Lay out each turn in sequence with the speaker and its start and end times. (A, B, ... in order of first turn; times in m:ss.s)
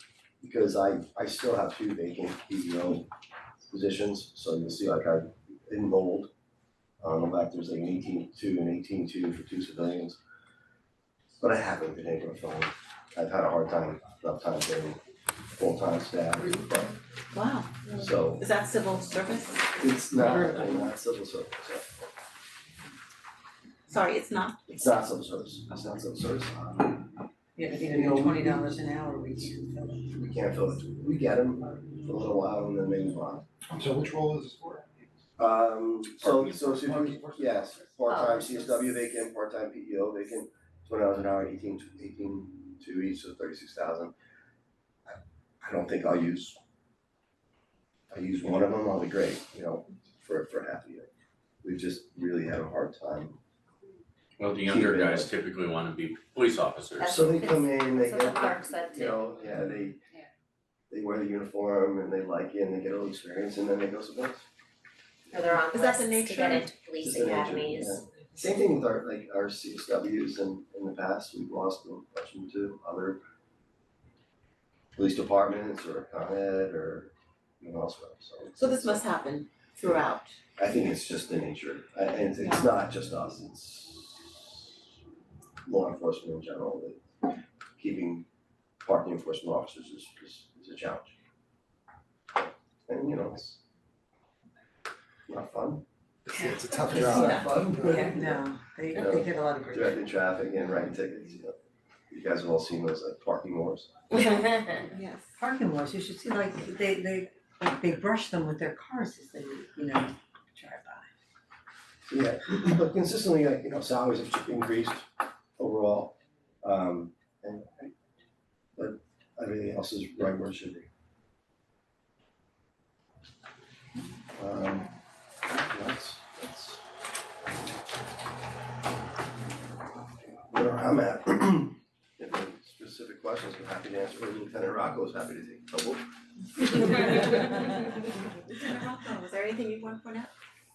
0:00.4-0:03.1 A
0:03.7-0:06.3 A
0:07.0-0:10.2 A
0:11.4-0:15.0 A
0:15.5-0:17.0 A
0:17.3-0:17.7 B
0:17.9-0:18.5 A
0:18.4-0:19.8 B
0:19.8-0:22.0 A
0:20.2-0:20.9 C
0:23.9-0:24.6 B
0:24.7-0:27.1 A
0:27.6-0:30.1 C
0:27.9-0:28.3 A
0:30.1-0:33.4 A
0:33.7-0:35.0 D
0:35.4-0:44.1 A
0:36.2-0:37.8 D
0:38.1-0:38.8 E
0:45.1-0:46.6 A
0:48.1-0:51.1 A
0:51.6-0:53.4 A
0:54.4-0:57.1 F
0:54.6-0:55.3 A
0:57.0-0:59.3 E
0:57.1-1:00.0 A
1:00.9-1:04.5 A
1:05.3-1:08.0 E
1:05.7-1:06.8 B
1:07.0-1:13.2 A
1:15.0-1:19.0 A
1:18.6-1:20.4 B
1:20.6-1:24.8 A
1:22.4-1:22.7 B
1:25.6-1:27.0 A
1:27.8-1:28.2 A
1:28.8-1:31.2 A
1:32.4-1:33.6 A
1:35.3-1:35.8 A
1:36.3-1:38.0 D
1:36.9-1:41.6 A
1:36.9-1:40.0 C
1:42.1-1:44.5 A
1:44.9-1:45.3 B
1:45.4-1:51.1 C
1:52.1-1:57.9 A
1:58.8-2:00.9 A
2:04.4-2:04.9 A
2:05.5-2:06.8 A
2:10.4-2:17.7 A
2:18.5-2:20.3 B